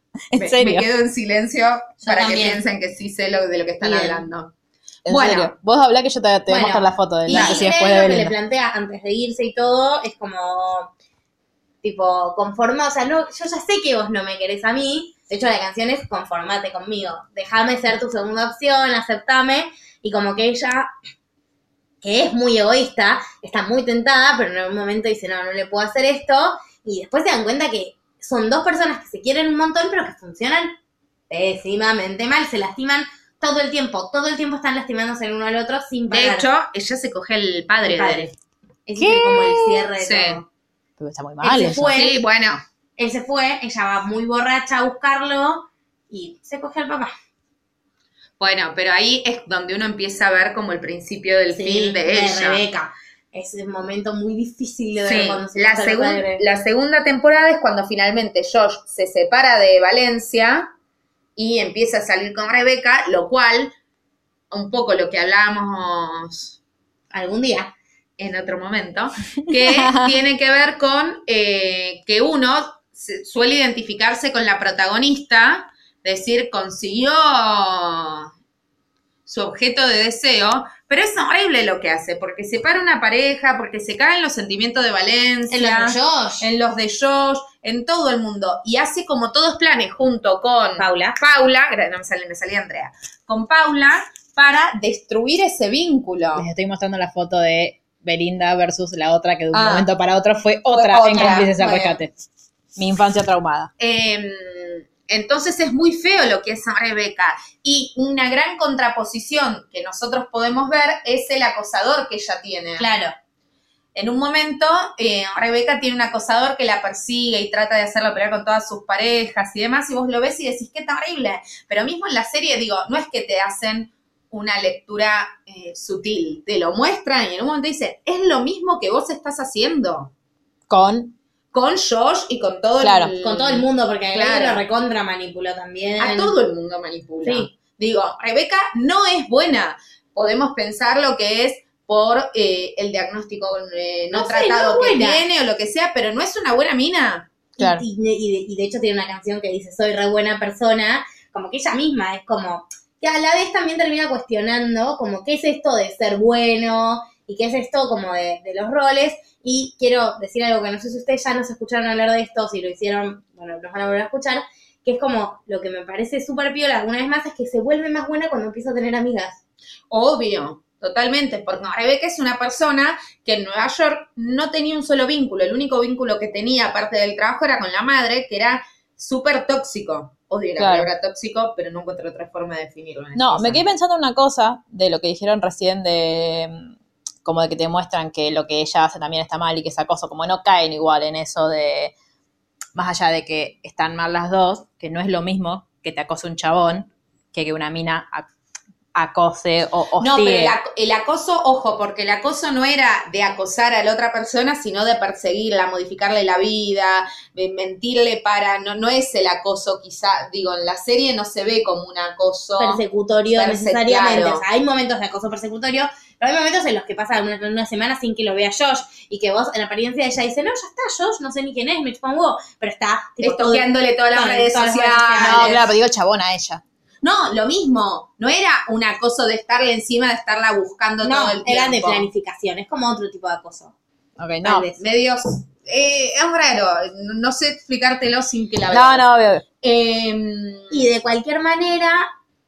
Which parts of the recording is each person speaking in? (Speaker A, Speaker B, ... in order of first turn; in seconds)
Speaker A: 0.3-0.9, 5.0-8.3, 39.0-39.8, 41.0-41.9, 69.6-70.2, 96.3-102.1, 102.8-103.7, 130.7-131.2, 132.8-133.1, 180.6-180.9, 183.2-186.7, 187.2-191.9, 192.8-198.3, 198.9-200.6, 225.2-226.6, 234.2-234.7, 238.7-239.4
Speaker B: 0.4-4.5, 5.1-5.5, 7.3-7.7, 36.1-38.3, 40.0-40.4, 41.9-42.6, 48.4-52.6, 55.0-60.7, 61.4-63.7, 64.5-66.6, 68.2-78.3, 79.3-96.5, 99.5-99.9, 100.7-102.0, 103.8-112.9, 114.0-130.1, 131.5-134.6, 136.0-147.3, 169.9-183.7, 200.0-212.8, 213.3-214.4, 223.2-225.7, 227.0-232.1, 234.8-239.1, 239.6-240.8
Speaker C: 2.0-2.6, 3.8-4.3, 6.5-10.9, 11.8-20.9, 22.0-30.8, 31.3-36.5, 37.9-38.3, 38.9-40.5, 41.4-42.2, 43.0-47.1, 51.5-56.4, 67.1-67.7, 85.5-86.5, 90.8-91.2, 101.1-101.9, 112.8-113.1, 133.2-136.4, 137.2-137.5, 144.1-145.2, 147.6-169.4, 212.6-225.7, 231.0-233.7, 234.4-234.8, 240.7-242.1